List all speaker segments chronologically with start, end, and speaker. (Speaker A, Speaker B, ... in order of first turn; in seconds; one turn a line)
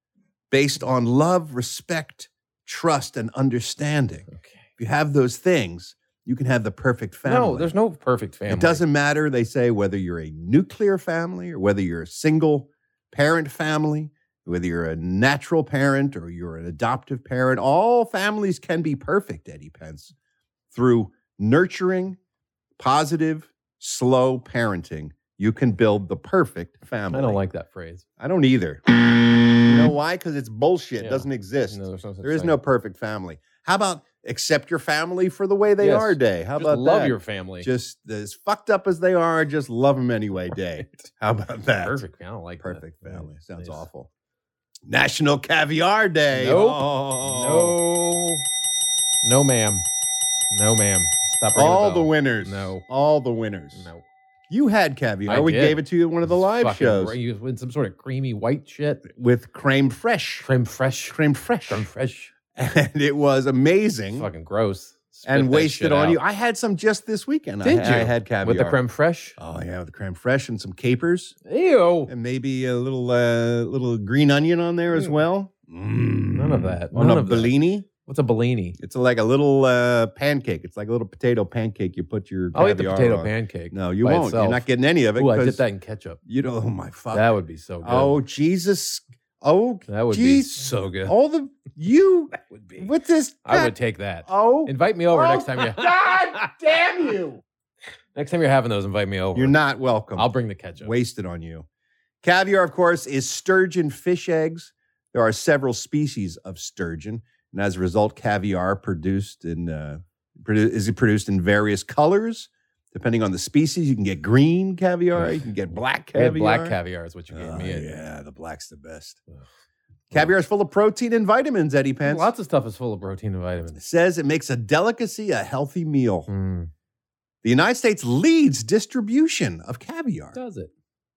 Speaker A: 0.5-4.3
Speaker B: 4.3-4.7
Speaker A: 4.8-7.7
Speaker B: 7.2-8.8
Speaker A: 8.5-20.1
Speaker A: 20.7-22.2
Speaker A: 22.8-27.4
Speaker B: 27.1-28.0
Speaker A: 28.2-28.8
Speaker A: 29.6-42.0
Speaker B: 31.0-32.6
Speaker B: 35.8-37.7
Speaker B: 41.8-43.8
Speaker A: 42.6-44.1
Speaker A: 44.9-47.8
Speaker B: 46.3-48.4
Speaker B: 49.2-49.9
Speaker B: 50.5-52.8
Speaker A: 51.5-53.9
Speaker B: 53.7-54.0
Speaker A: 54.5-57.1
Speaker B: 55.2-59.0
Speaker A: 59.1-60.5
Speaker B: 60.4-62.3
Speaker A: 61.1-61.9
Speaker A: 62.5-64.3
Speaker B: 64.1-66.2
Speaker A: 65.2-68.8
Speaker B: 67.6-69.4
Speaker A: 69.4-71.3
Speaker B: 71.4-72.1
Speaker A: 72.1-77.8
Speaker B: 74.9-75.2
Speaker B: 76.3-78.8
Speaker A: 78.8-85.6
Speaker B: 82.5-86.2
Speaker A: 86.2-87.3
Speaker B: 87.1-88.2
Speaker A: 87.8-93.7
Speaker B: 89.9-91.1
Speaker B: 92.4-92.9
Speaker B: 93.4-96.5
Speaker A: 94.2-97.4
Speaker B: 98.1-99.6
Speaker A: 99.3-101.7
Speaker B: 100.1-100.9
Speaker A: 102.2-116.8
Speaker B: 115.1-115.4
Speaker B: 116.1-118.0
Speaker A: 117.3-119.2
Speaker A: 120.1-122.3
Speaker B: 122.0-123.8
Speaker A: 123.8-126.3
Speaker B: 126.3-126.7
Speaker A: 127.4-130.3
Speaker B: 130.3-130.7